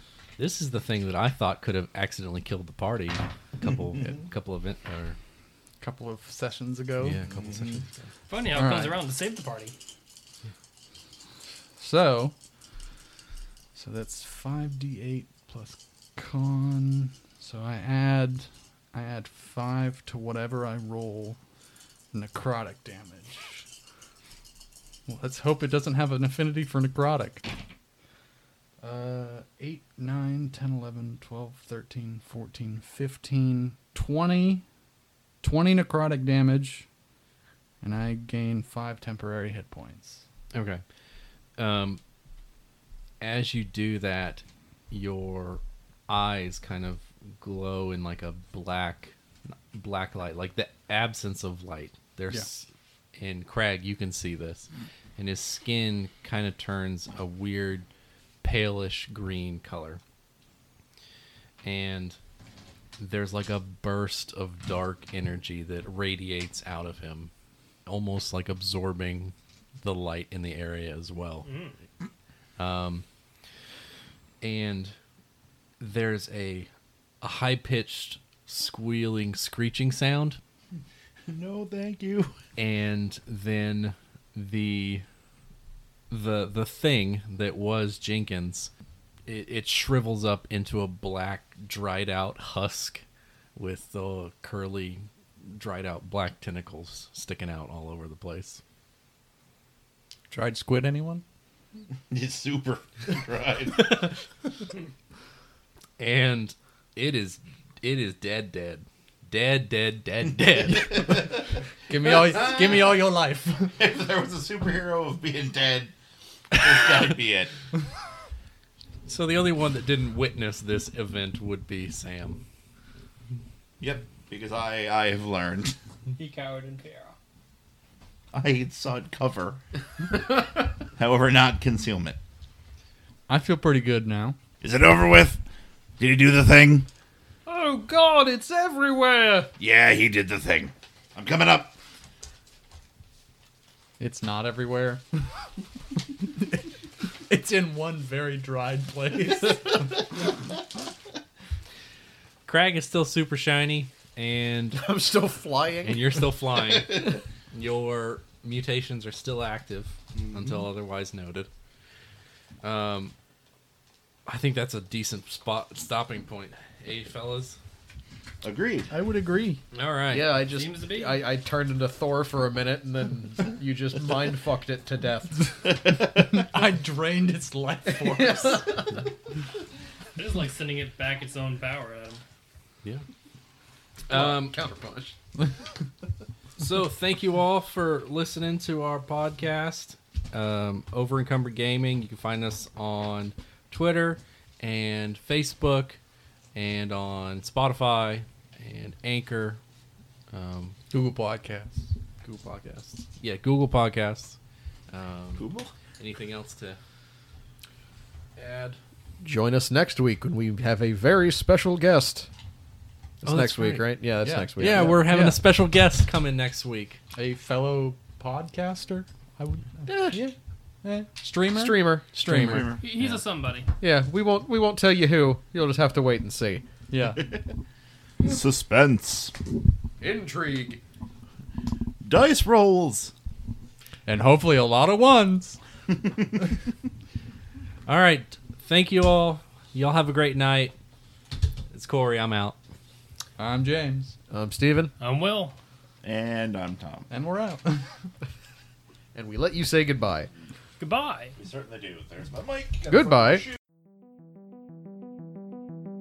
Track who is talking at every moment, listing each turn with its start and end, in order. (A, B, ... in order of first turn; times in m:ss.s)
0:00.4-0:05.2 A
0:05.8-0:07.8 B
0:07.0-0:08.1 A
0:08.3-0:09.7 C
0:08.4-0:09.0 B
0:11.8-0:12.3 B
0:13.7-0:21.4 B
0:22.1-0:23.6 B
0:25.1-0:27.5 B
0:28.8-0:34.6 B
0:35.4-0:36.9 B
0:37.8-0:40.2 B
0:40.5-0:40.8 A
0:41.6-0:42.0 A
0:43.2-0:57.9 A
0:58.4-1:00.0 A
1:01.6-1:02.2 A
1:03.0-1:07.3 A
1:07.8-1:11.5 A
1:11.4-1:11.8 C
1:12.6-1:13.0 A
1:14.4-1:15.0 A
1:15.8-1:16.7 A
1:17.2-1:20.4 A
1:21.3-1:22.4 D
1:22.6-1:25.0 A
1:26.1-1:28.7 A
1:29.2-1:33.0 A
1:33.6-1:38.6 A
1:40.3-1:41.2 B
1:42.1-1:44.1 D
1:46.0-1:51.1 A
1:50.7-1:51.4 D
1:50.7-1:53.8 B
1:52.5-1:52.8 D
1:53.8-1:55.9 D
1:56.5-1:57.5 D
1:59.0-2:02.4 A
2:03.8-2:05.8 D
2:06.2-2:07.1 C
2:08.3-2:09.6 D
2:11.0-2:12.2 D
2:13.3-2:14.4 B
2:14.6-2:15.4 D
2:16.0-2:16.9 D
2:17.4-2:19.5 E
2:19.6-2:21.8 D
2:24.0-2:25.0 B
2:27.3-2:30.1 B
2:32.4-2:34.8 A
2:34.7-2:37.0 E
2:35.8-2:41.5 A
2:40.1-2:40.7 D
2:42.6-2:43.1 A
2:44.2-2:47.6 A
2:48.4-2:48.9 D
2:48.9-2:49.6 B
2:49.7-2:50.4 A
2:50.1-2:55.4 E
2:50.4-2:51.2 C
2:55.7-2:58.8 B
2:55.7-2:56.4 D
2:57.9-2:59.0 E
3:00.2-3:02.2 C
3:04.1-3:04.6 A
3:04.1-3:05.2 E
3:06.6-3:16.0 A
3:16.5-3:19.6 A
3:20.3-3:20.8 A
3:20.9-3:21.9 B
3:22.2-3:24.4 A
3:24.9-3:25.4 A
3:25.4-3:25.7 D
3:26.0-3:26.8 A
3:28.4-3:28.8 A
3:29.2-3:32.3 E
3:33.2-3:35.2 E
3:33.2-3:34.0 A
3:34.2-3:35.4 B
3:34.6-3:37.0 A
3:37.1-3:42.8 B
3:39.9-3:40.3 E
3:41.4-3:42.1 E
3:42.1-3:42.8 A
3:42.4-3:42.8 D
3:42.8-3:43.7 C
3:43.8-3:46.6 E
3:46.9-3:47.3 B
3:48.2-3:49.3 D
3:50.0-3:50.8 E
3:52.0-3:53.1 D
3:54.1-3:55.6 B
3:57.8-4:00.7 A
4:01.7-4:02.6 A
4:03.4-4:04.2 B
4:04.3-4:04.9 E
4:05.0-4:05.6 C
4:06.0-4:07.1 D
4:07.1-4:07.9 B
4:09.1-4:10.3 E
4:10.8-4:11.4 C
4:11.4-4:12.9 D
4:12.9-4:13.4 E